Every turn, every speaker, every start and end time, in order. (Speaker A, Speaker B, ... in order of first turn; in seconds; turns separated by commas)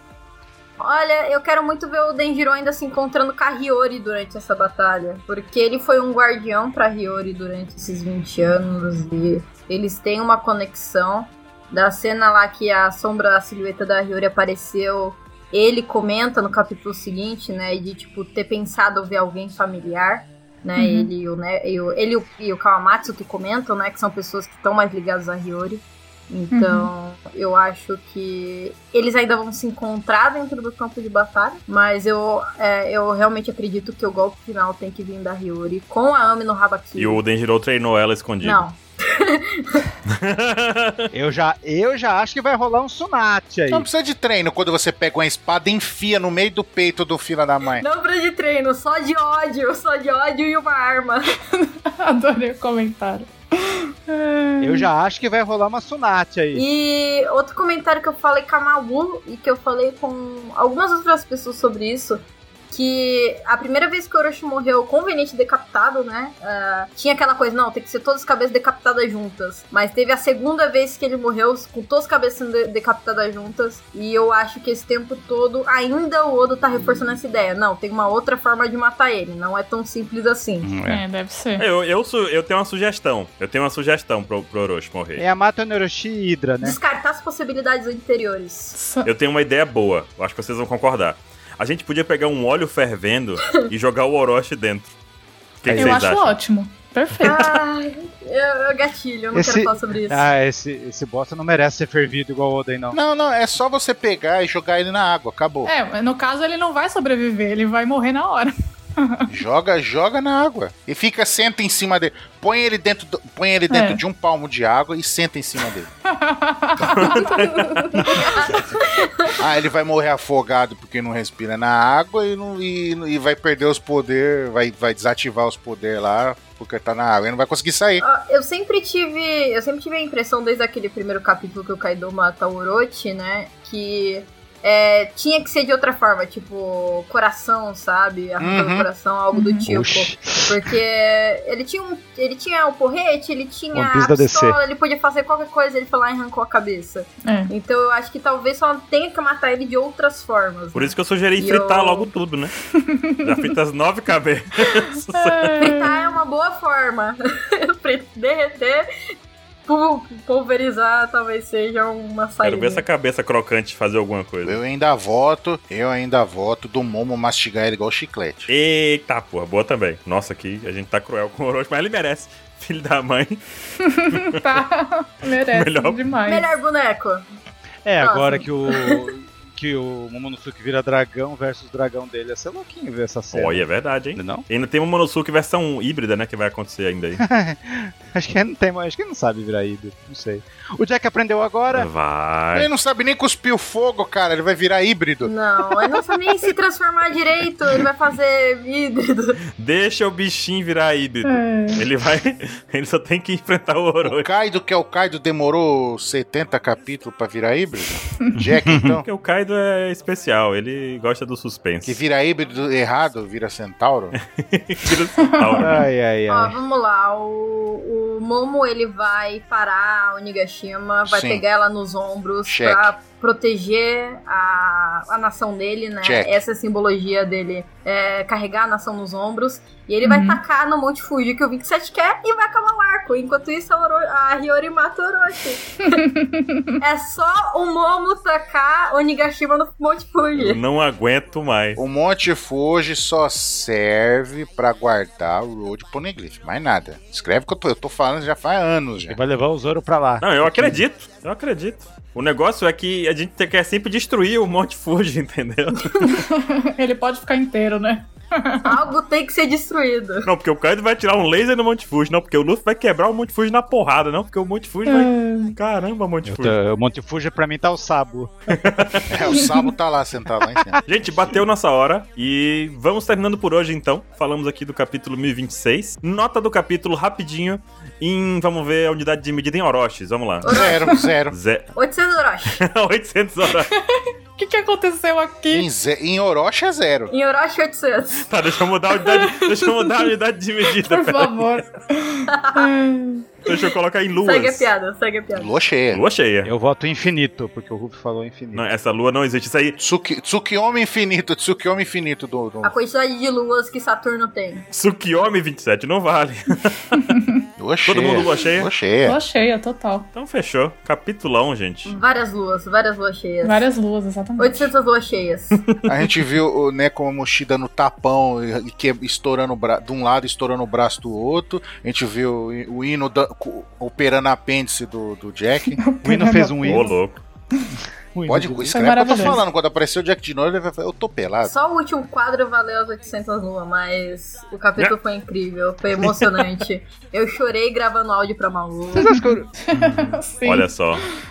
Speaker A: 0.8-37.2, Speaker B: 20.8-21.1, Speaker B: 26.5-26.9, Speaker C: 37.0-38.6, Speaker A: 38.4-39.9, Speaker C: 40.1-41.1, Speaker D: 41.1-43.9, Speaker E: 43.7-47.8, Speaker A: 47.8-51.3, Speaker B: 51.5-54.9, Speaker D: 54.6-56.6, Speaker A: 56.5-80.7, Speaker D: 80.6-81.0, Speaker B: 80.9-81.7, Speaker C: 81.6-85.2, Speaker D: 85.2-86.8, Speaker A: 86.6-88.8, Speaker B: 88.8-89.1, Speaker C: 89.0-95.0, Speaker C: 95.6-96.4, Speaker D: 95.7-96.0, Speaker B: 95.8-97.6, Speaker A: 97.2-100.3, Speaker D: 99.3-103.0, Speaker E: 102.9-105.7, Speaker B: 105.7-109.3, Speaker E: 109.3-115.9, Speaker B: 113.7-114.0, Speaker B: 116.1-118.2, Speaker C: 116.8-118.2, Speaker A: 117.2-119.4, Speaker E: 119.4-128.0, Speaker A: 128.0-152.1, Speaker E: 138.4-138.9, Speaker B: 139.3-139.7, Speaker D: 139.7-140.7, Speaker D: 143.7-144.6, Speaker B: 147.2-147.5, Speaker C: 150.7-152.5, Speaker B: 152.7-153.5, Speaker C: 153.2-155.6, Speaker B: 155.1-155.9, Speaker A: 155.6-158.9, Speaker A: 159.7-162.8, Speaker C: 162.4-164.6, Speaker E: 164.4-168.5, Speaker C: 168.5-173.4, Speaker B: 173.8-176.5, Speaker C: 174.1-174.4, Speaker C: 175.5-176.0, Speaker A: 176.3-177.2, Speaker D: 177.8-183.6, Speaker A: 178.0-179.1, Speaker C: 183.3-187.2, Speaker D: 184.2-184.5, Speaker D: 187.2-191.9, Speaker C: 191.7-192.7, Speaker E: 192.5-195.3, Speaker A: 195.2-199.4, Speaker C: 199.6-204.3, Speaker B: 201.3-201.8, Speaker E: 204.0-209.0, Speaker D: 208.6-208.9, Speaker C: 209.0-212.0, Speaker E: 211.8-214.2, Speaker C: 214.2-215.8, Speaker B: 215.3-215.7, Speaker D: 215.6-216.6, Speaker A: 216.3-236.0, Speaker E: 221.1-221.4, Speaker E: 222.4-222.9, Speaker E: 226.0-226.4, Speaker B: 230.0-230.4, Speaker B: 236.2-236.8, Speaker A: 236.8-240.6, Speaker C: 240.4-241.8, Speaker E: 241.8-249.2, Speaker D: 249.1-250.8, Speaker C: 250.2-256.1, Speaker B: 256.1-258.7, Speaker A: 258.6-260.3, Speaker C: 260.2-266.6, Speaker B: 264.9-265.6, Speaker D: 266.3-269.0, Speaker C: 268.5-269.1, Speaker E: 269.1-270.8, Speaker C: 270.9-280.7, Speaker A: 280.4-281.0, Speaker E: 280.5-281.4, Speaker C: 281.3-281.7, Speaker A: 281.8-282.6, Speaker C: 282.6-283.7, Speaker B: 283.7-285.7, Speaker E: 285.5-287.1, Speaker A: 287.1-288.3, Speaker C: 288.2-291.6, Speaker B: 290.8-293.3, Speaker A: 292.3-292.7, Speaker C: 293.5-294.7, Speaker A: 294.2-295.5, Speaker E: 295.3-296.0, Speaker C: 295.9-296.5, Speaker D: 296.4-298.7, Speaker C: 298.6-299.8, Speaker E: 299.8-302.7, Speaker A: 302.6-304.6, Speaker C: 304.7-306.8, Speaker B: 307.0-307.4, Speaker E: 307.6-309.2, Speaker C: 307.9-308.7, Speaker D: 307.9-308.2, Speaker B: 309.1-310.1, Speaker C: 310.1-312.0, Speaker A: 311.9-313.6, Speaker B: 313.4-314.7, Speaker A: 314.4-315.6, Speaker E: 315.9-325.8, Speaker B: 325.7-327.0, Speaker D: 326.0-326.9, Speaker C: 326.7-327.2, Speaker D: 328.1-329.3, Speaker E: 328.3-331.5, Speaker B: 328.7-329.4, Speaker A: 331.4-339.1, Speaker C: 336.0-336.5, Speaker D: 338.9-340.2, Speaker B: 339.1-340.7, Speaker C: 340.4-341.0